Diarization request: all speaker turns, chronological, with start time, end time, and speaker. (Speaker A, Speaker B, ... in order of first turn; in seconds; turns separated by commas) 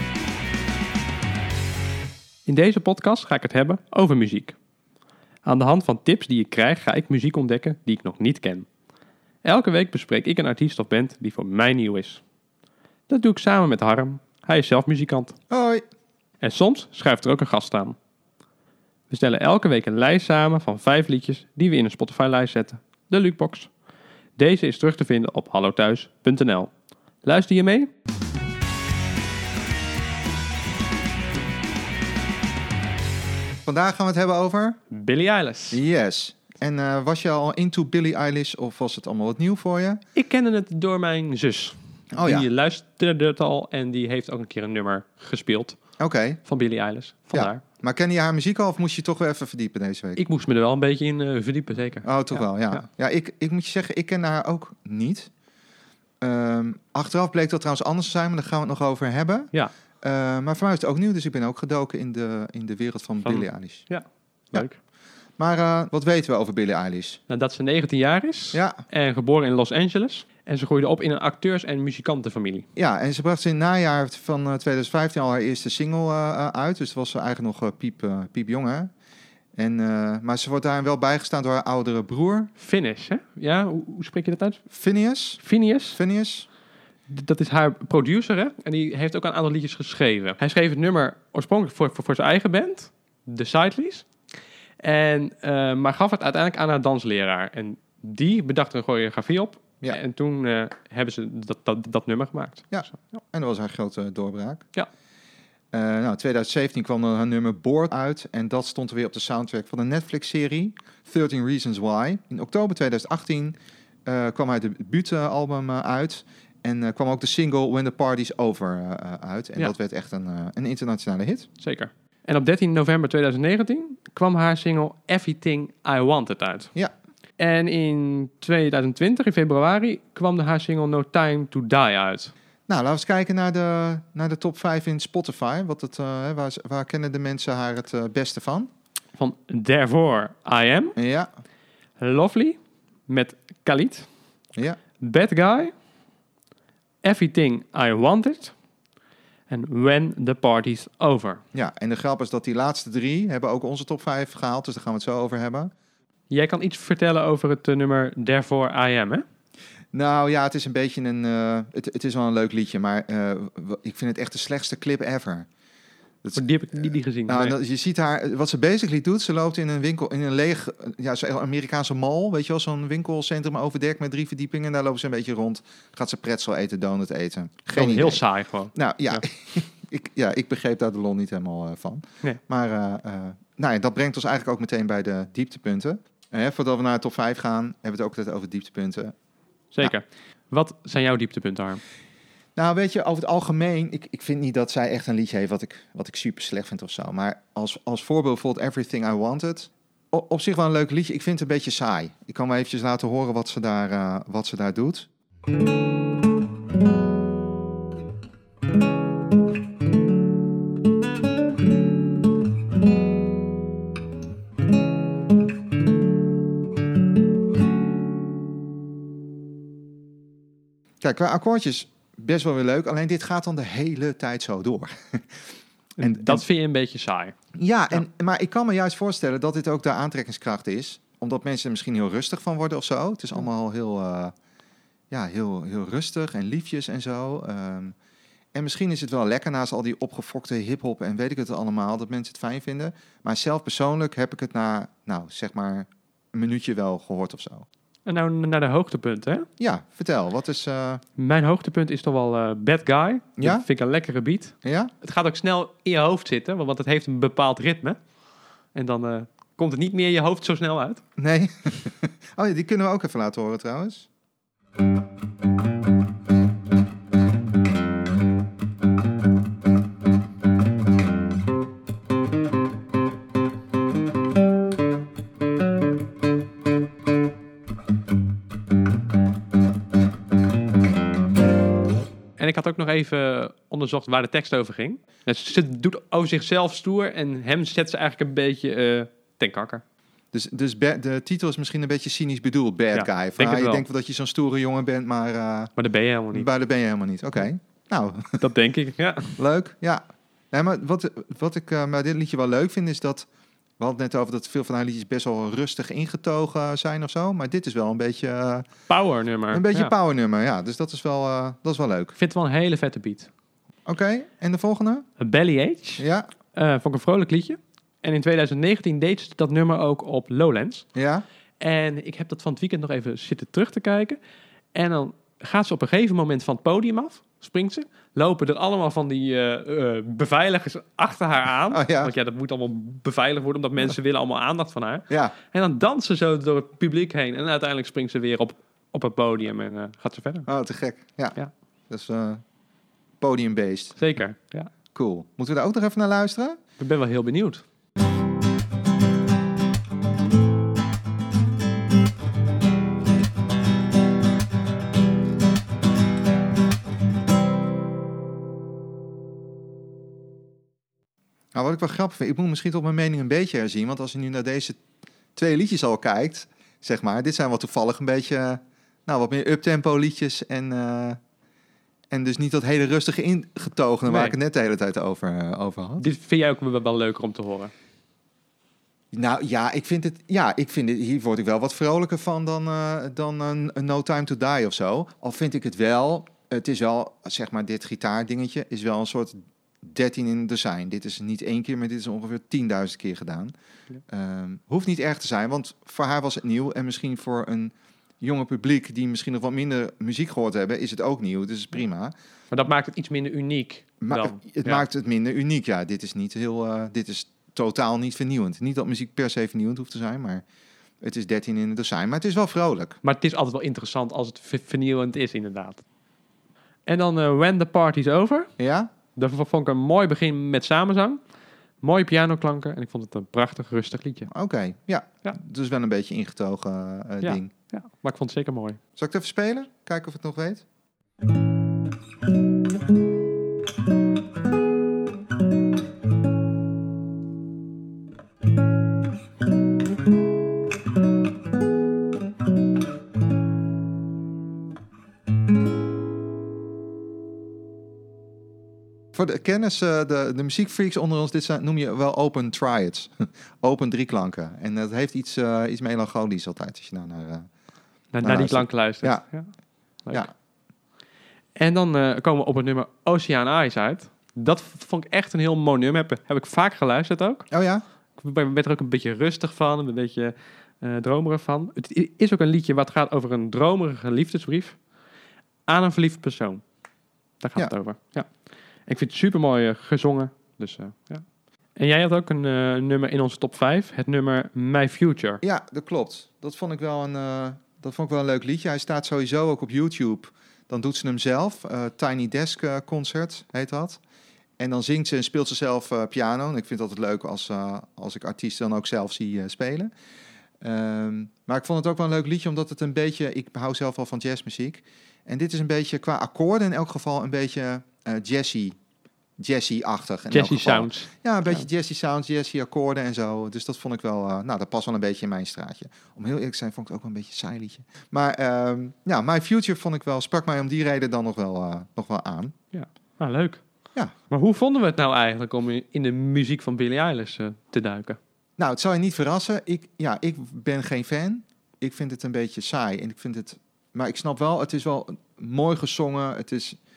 Speaker A: 2.5-4.5, Speaker A: 5.4-8.7, Speaker A: 9.4-12.2, Speaker A: 13.1-15.3, Speaker B: 15.5-15.8, Speaker A: 16.4-17.9, Speaker A: 19.1-23.7, Speaker A: 24.4-26.7, Speaker A: 27.2-27.9, Speaker B: 33.6-34.8, Speaker A: 34.9-35.8, Speaker B: 35.7-40.0, Speaker A: 40.1-45.8, Speaker B: 42.1-42.5, Speaker B: 46.0-46.4, Speaker A: 46.4-47.6, Speaker B: 47.3-50.2, Speaker A: 50.1-52.8, Speaker B: 52.0-55.3, Speaker B: 56.2-59.5, Speaker B: 60.0-63.9, Speaker A: 63.2-64.8, Speaker B: 65.4-67.2, Speaker A: 67.3-72.7, Speaker B: 68.5-68.8, Speaker B: 72.8-78.9, Speaker B: 79.5-82.5, Speaker A: 82.6-84.6, Speaker B: 84.7-85.4, Speaker A: 85.4-86.0, Speaker B: 85.9-86.5, Speaker A: 87.1-94.1, Speaker A: 94.8-103.0, Speaker B: 102.7-104.7, Speaker B: 105.7-113.5, Speaker B: 114.0-121.5, Speaker A: 121.6-126.7, Speaker A: 127.4-132.3, Speaker B: 132.7-138.7, Speaker A: 139.2-140.9, Speaker B: 140.9-141.3, Speaker A: 142.0-142.6, Speaker A: 143.1-144.1, Speaker A: 145.0-145.7, Speaker A: 147.0-148.5, Speaker A: 149.5-151.4, Speaker B: 151.5-155.7, Speaker A: 156.3-159.2, Speaker B: 159.9-165.4, Speaker B: 166.2-178.2, Speaker A: 166.3-167.6, Speaker A: 177.7-179.2, Speaker B: 178.7-189.1, Speaker A: 189.7-191.8, Speaker B: 192.6-205.1, Speaker B: 221.0-225.2, Speaker A: 226.0-227.3, Speaker B: 226.0-226.4, Speaker B: 227.6-234.3, Speaker B: 235.1-237.9, Speaker B: 238.5-247.7, Speaker A: 248.1-249.4, Speaker B: 249.6-251.0, Speaker A: 251.2-258.0, Speaker B: 253.4-253.6, Speaker B: 254.6-254.9, Speaker A: 258.7-261.0, Speaker B: 261.2-264.1, Speaker A: 282.4-289.8, Speaker B: 290.3-295.7, Speaker A: 292.9-293.9, Speaker A: 295.8-296.5, Speaker B: 296.3-298.4, Speaker A: 298.4-299.4, Speaker B: 299.4-303.2, Speaker B: 303.8-308.7, Speaker A: 308.9-309.9, Speaker B: 309.5-312.1, Speaker A: 312.1-313.3, Speaker B: 313.9-315.0, Speaker A: 315.2-320.9, Speaker B: 316.0-316.3, Speaker B: 320.9-321.2, Speaker A: 321.6-324.2, Speaker A: 324.7-340.5, Speaker B: 331.7-332.1, Speaker B: 340.5-341.4, Speaker B: 341.9-342.4, Speaker B: 343.2-344.0, Speaker A: 344.0-344.7, Speaker B: 344.9-346.6, Speaker A: 346.8-347.6, Speaker B: 361.5-364.8, Speaker B: 365.3-371.2, Speaker B: 372.1-376.0, Speaker A: 374.0-374.4, Speaker A: 376.0-377.7, Speaker B: 379.1-393.5, Speaker B: 394.1-402.1, Speaker A: 402.5-404.8, Speaker B: 404.0-410.4, Speaker B: 411.0-413.0, Speaker A: 413.0-415.8, Speaker A: 416.9-418.5, Speaker B: 418.6-418.9, Speaker A: 419.1-421.2, Speaker A: 421.8-424.3, Speaker B: 424.3-427.5, Speaker A: 427.2-428.8, Speaker B: 429.0-430.6, Speaker B: 449.1-457.5, Speaker A: 458.1-459.5, Speaker B: 458.2-459.2, Speaker A: 461.6-467.5, Speaker B: 467.5-467.8, Speaker A: 468.2-474.8, Speaker A: 475.7-476.6, Speaker A: 477.4-478.3, Speaker A: 478.9-481.2, Speaker A: 481.8-485.4, Speaker B: 485.4-494.0, Speaker B: 494.6-499.9, Speaker B: 500.6-508.8, Speaker B: 509.4-522.5, Speaker A: 510.3-511.6, Speaker A: 522.7-523.6, Speaker A: 524.3-528.2, Speaker B: 528.6-536.8